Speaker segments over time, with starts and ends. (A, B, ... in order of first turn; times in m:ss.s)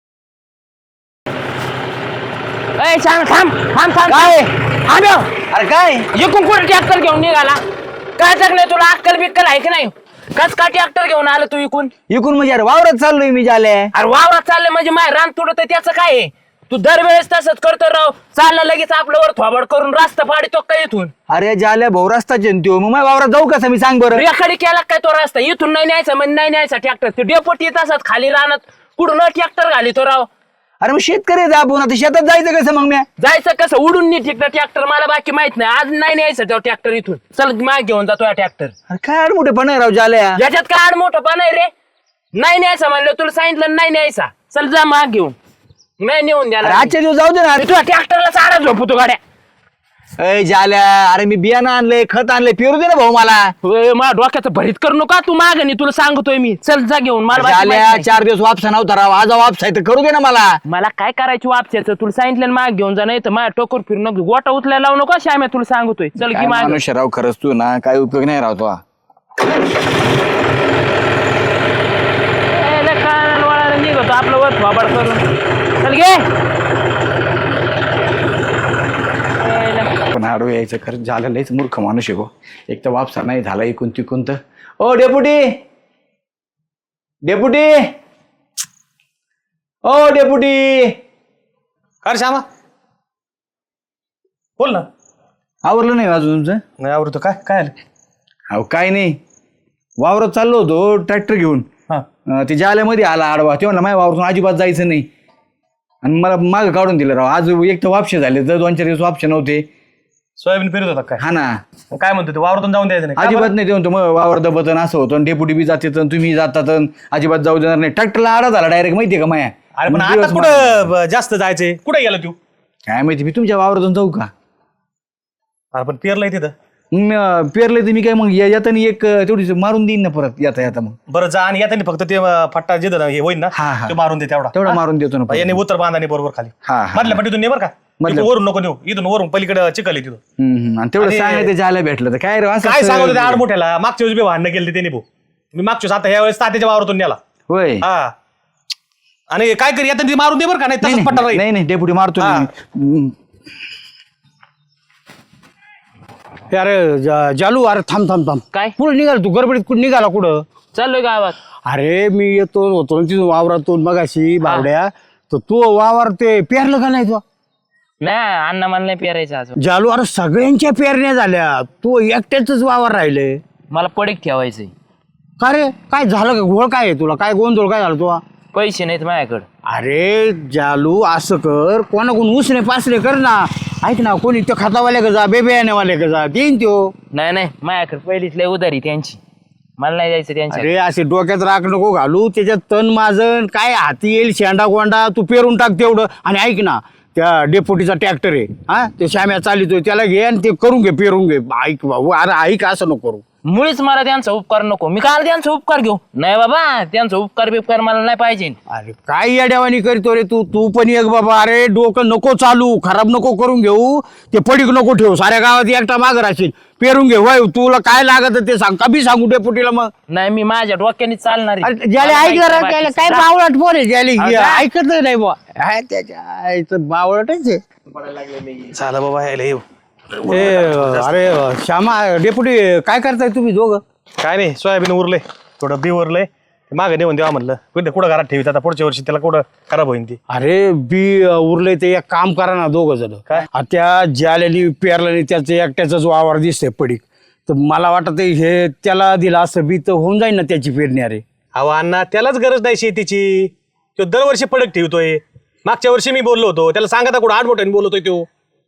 0:02.8-0:05.3 A
0:04.1-0:04.5 B
0:05.5-0:06.1 B
0:06.1-0:07.6 A
0:08.2-0:11.9 A
0:12.1-0:13.9 B
0:13.9-0:21.1 A
0:21.3-0:24.2 B
0:24.1-0:30.3 A
0:30.8-0:33.0 B
0:33.2-0:38.7 A
0:38.9-0:40.4 B
0:40.4-0:41.7 A
0:42.3-0:45.4 A
0:46.0-0:46.9 A
0:46.6-0:47.7 B
0:47.6-0:49.2 A
0:50.2-0:53.5 B
0:53.6-0:58.1 A
0:57.3-1:00.6 B
1:00.7-1:06.8 A
1:06.2-1:08.8 B
1:12.5-1:15.3 A
1:15.8-1:16.3 A
1:19.4-1:19.9 A
1:20.1-1:25.6 B
1:27.2-1:27.9 B
1:29.8-1:31.0 B
1:32.0-1:32.4 C
1:34.6-1:34.9 C
1:35.6-1:36.6 B
1:36.8-1:37.7 C
1:38.5-1:39.2 B
1:40.0-1:41.7 B
1:42.3-1:45.1 B
1:46.0-1:49.7 B
1:50.4-1:51.2 C
1:51.2-1:51.6 B
1:51.9-1:53.5 C
1:53.2-2:00.9 B
1:59.8-2:02.4 C
2:02.9-2:04.3 B
2:05.7-2:06.5 C
2:06.9-2:11.0 B
2:11.1-2:20.2 C
2:13.5-2:14.0 B
2:14.5-2:15.6 B
2:16.6-2:17.2 B
2:18.0-2:18.3 B
2:20.4-2:23.4 B
2:21.0-2:21.5 C
2:22.6-2:27.2 C
2:27.5-2:27.8 B
2:27.8-2:28.1 C
2:29.3-2:31.4 C
2:30.8-2:33.1 B
2:32.2-2:32.5 C
2:36.5-2:40.4 D
2:40.7-2:41.4 A
2:41.7-2:47.2 D
2:44.4-2:44.7 A
2:48.0-2:49.6 A
2:49.6-2:53.4 D
2:53.7-2:54.7 A
2:55.4-2:58.2 D
2:58.5-2:59.4 A
2:59.6-3:06.9 D
3:07.1-3:09.2 A
3:09.8-3:10.7 A
3:10.5-3:23.2 D
3:23.5-3:28.6 A
3:28.7-3:39.9 D
3:40.1-3:43.3 A
3:41.6-3:47.6 D
3:44.2-3:44.6 A
3:48.7-3:49.6 C
3:50.2-3:53.8 D
3:50.3-3:51.2 C
3:54.2-4:00.2 C
4:00.3-4:11.2 D
4:11.5-4:18.3 C